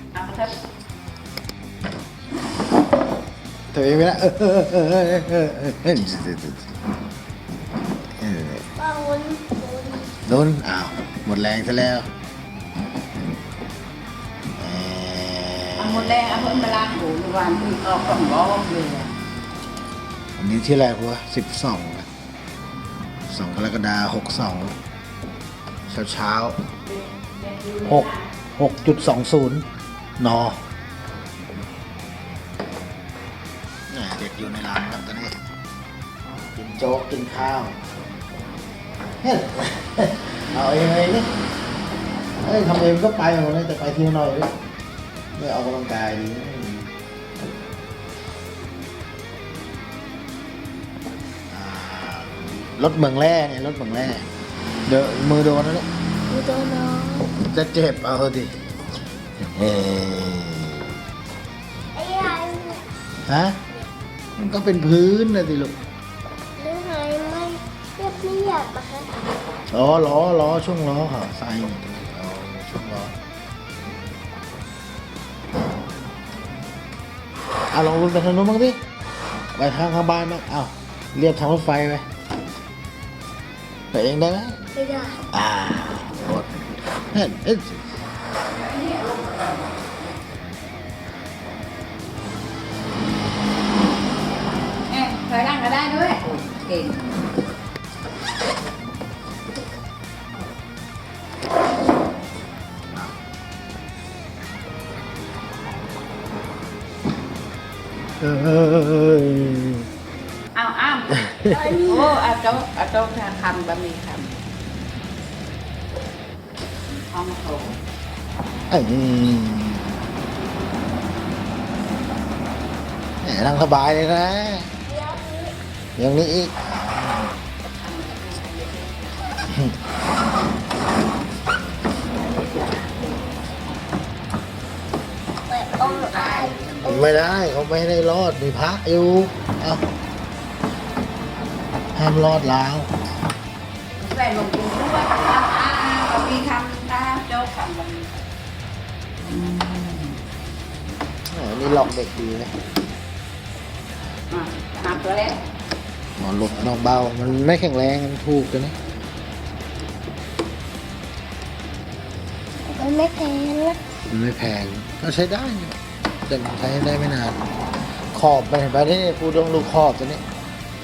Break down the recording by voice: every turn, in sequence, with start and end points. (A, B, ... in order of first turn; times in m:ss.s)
0:00.1-0:00.5 A
0:03.7-0:06.7 B
0:08.2-0:08.6 B
0:08.8-0:10.1 C
0:10.2-0:12.1 B
0:14.6-0:16.8 B
0:15.8-0:19.1 A
0:20.4-0:22.1 B
0:23.3-0:24.8 B
0:25.9-0:26.6 B
0:26.9-0:28.2 A
0:27.8-0:29.7 B
0:30.2-0:30.6 B
0:33.9-0:35.4 B
0:36.5-0:37.8 B
0:39.2-0:41.3 B
0:42.4-0:44.6 B
0:45.3-0:46.9 B
0:51.5-0:54.3 B
0:54.8-0:55.9 B
0:56.3-0:57.3 C
0:57.4-0:58.6 B
0:59.5-1:00.9 B
1:01.9-1:02.9 C
1:03.2-1:03.6 B
1:04.4-1:05.8 B
1:06.6-1:09.2 C
1:09.7-1:13.2 B
1:17.7-1:18.8 B
1:19.5-1:22.1 B
1:23.9-1:24.6 B
1:24.7-1:25.2 C
1:25.3-1:27.9 B
1:28.5-1:29.6 A
1:34.9-1:37.0 A
1:48.2-1:49.9 B
1:50.5-1:54.3 A
1:51.2-1:51.5 B
1:51.5-1:52.2 C
1:57.1-1:57.8 A
1:58.7-1:59.9 B
2:03.2-2:04.7 B
2:04.8-2:05.6 C
2:06.0-2:07.3 B
2:07.8-2:09.3 A
2:09.5-2:09.8 B
2:15.5-2:17.3 C
2:15.8-2:17.1 A
2:16.8-2:19.8 B
2:21.9-2:22.9 B
2:24.0-2:28.2 A
2:29.2-2:30.2 A
2:31.3-2:32.5 B
2:34.3-2:35.4 A
2:36.2-2:38.8 B
2:42.7-2:43.8 C
2:44.1-2:45.8 B
2:46.3-2:47.5 B
2:48.1-2:50.2 B